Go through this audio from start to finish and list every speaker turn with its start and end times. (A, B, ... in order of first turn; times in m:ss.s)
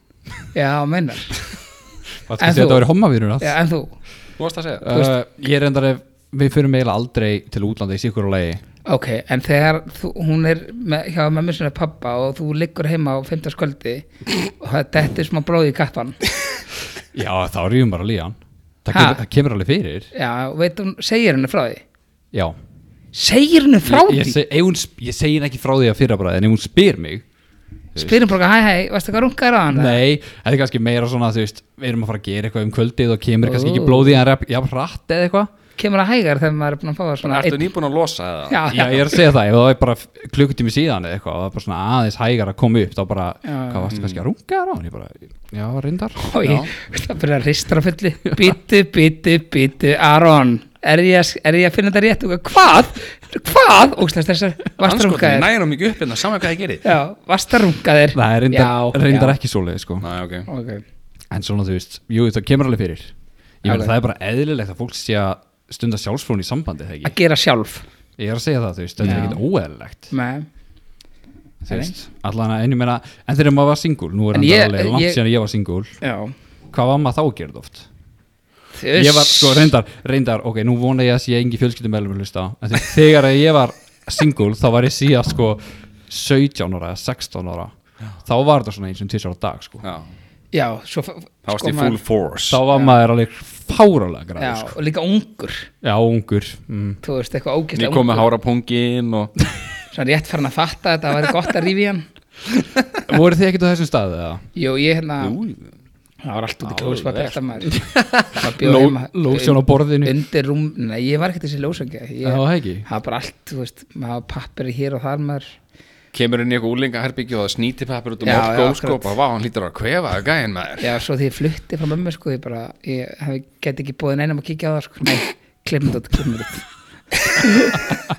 0:00.5-0:01.4 A
0:02.3-0:03.5 B
0:02.4-0:02.9 A
0:03.4-0:03.9 A
0:04.4-0:04.9 C
0:04.8-0:08.6 B
0:08.8-0:16.2 A
0:17.1-0:20.1 B
0:18.9-0:19.2 A
0:20.1-0:21.8 A
0:23.1-0:24.4 A
0:23.8-0:27.2 B
0:28.0-0:30.0 A
0:29.7-0:35.5 B
0:33.4-0:34.2 A
0:35.8-0:37.6 A
0:37.2-0:38.7 C
0:38.5-0:39.2 A
0:38.7-0:46.2 B
0:43.4-0:43.9 A
0:43.9-0:44.2 C
0:46.2-0:55.5 A
0:46.4-0:46.7 C
0:54.8-0:56.8 C
0:56.8-0:59.4 A
0:58.1-1:00.0 B
1:00.0-1:00.5 C
1:00.5-1:00.8 A
1:01.3-1:07.1 B
1:03.6-1:03.9 A
1:07.0-1:07.8 A
1:08.2-1:10.1 B
1:09.0-1:09.3 C
1:09.0-1:09.4 A
1:10.1-1:10.5 A
1:11.6-1:15.9 B
1:11.7-1:11.9 A
1:14.3-1:15.2 A
1:16.0-1:16.3 A
1:16.7-1:17.9 B
1:18.8-1:19.7 A
1:18.9-1:27.7 B
1:28.2-1:29.8 B
1:29.8-1:30.1 C
1:30.5-1:32.0 A
1:31.4-1:32.6 C
1:32.5-1:34.7 B
1:32.7-1:33.0 A
1:34.4-1:35.7 A
1:35.8-1:37.0 B
1:37.0-1:38.3 A
1:37.7-1:39.3 C
1:39.9-1:42.0 A
1:43.1-1:44.4 B
1:44.6-1:45.4 A
1:45.2-1:45.8 C
1:46.2-1:47.7 A
1:46.6-1:48.0 C
1:48.3-1:55.5 A
1:48.4-1:50.1 B
1:52.2-1:52.8 B
1:56.1-2:01.0 C
1:58.2-1:59.1 A
2:00.8-2:06.6 A
2:07.4-2:07.9 A